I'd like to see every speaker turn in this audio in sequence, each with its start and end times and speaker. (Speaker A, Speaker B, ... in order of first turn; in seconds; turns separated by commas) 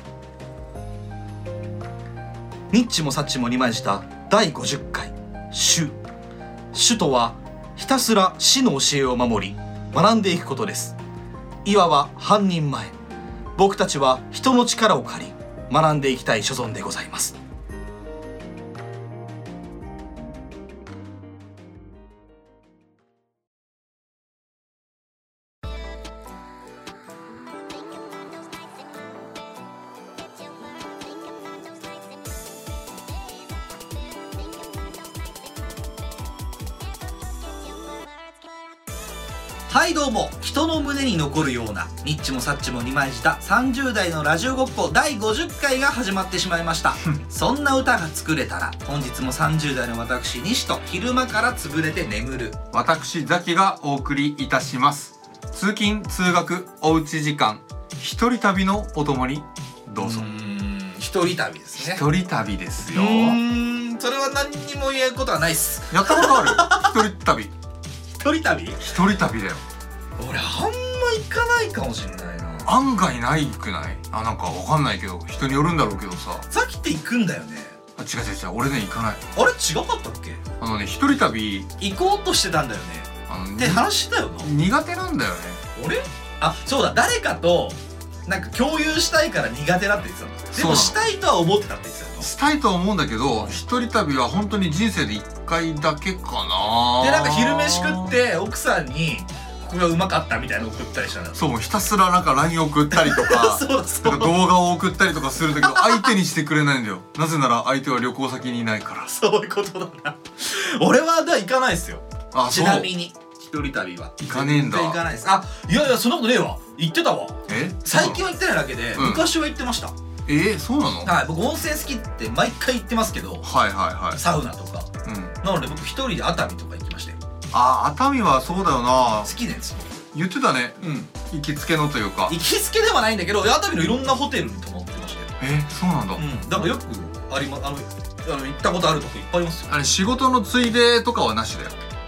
Speaker A: 2.7-6.0, Speaker A: 6.7-10.9, Speaker A: 11.7-12.9, Speaker A: 13.6-17.3, Speaker A: 39.7-52.6, Speaker B: 52.7-60.2, Speaker A: 60.0-62.0, Speaker B: 61.8-63.4, Speaker A: 62.9-66.9, Speaker B: 65.9-67.5, Speaker A: 68.2-68.8, Speaker B: 68.8-69.6, Speaker A: 70.2-72.7, Speaker B: 72.7-76.4, Speaker A: 76.5-77.8, Speaker B: 78.0-79.2, Speaker A: 79.3-80.4, Speaker B: 80.6-81.7, Speaker A: 81.8-84.5, Speaker B: 83.3-83.9, Speaker B: 84.4-85.6, Speaker A: 85.8-92.3, Speaker B: 90.5-91.0, Speaker B: 92.2-98.2, Speaker A: 97.0-101.4, Speaker B: 101.3-109.1, Speaker A: 102.9-104.4, Speaker A: 105.6-106.1, Speaker A: 109.1-119.9, Speaker B: 112.3-112.9, Speaker B: 114.2-115.0, Speaker B: 117.5-118.2, Speaker B: 118.9-119.3, Speaker B: 120.3-121.1, Speaker A: 121.0-123.5, Speaker B: 123.4-124.2, Speaker A: 124.1-127.2, Speaker B: 125.0-125.3, Speaker B: 127.5-129.3, Speaker A: 129.0-130.0, Speaker B: 130.1-132.3, Speaker A: 132.3-135.3, Speaker B: 135.4-136.2, Speaker A: 136.2-139.7, Speaker B: 139.7-141.8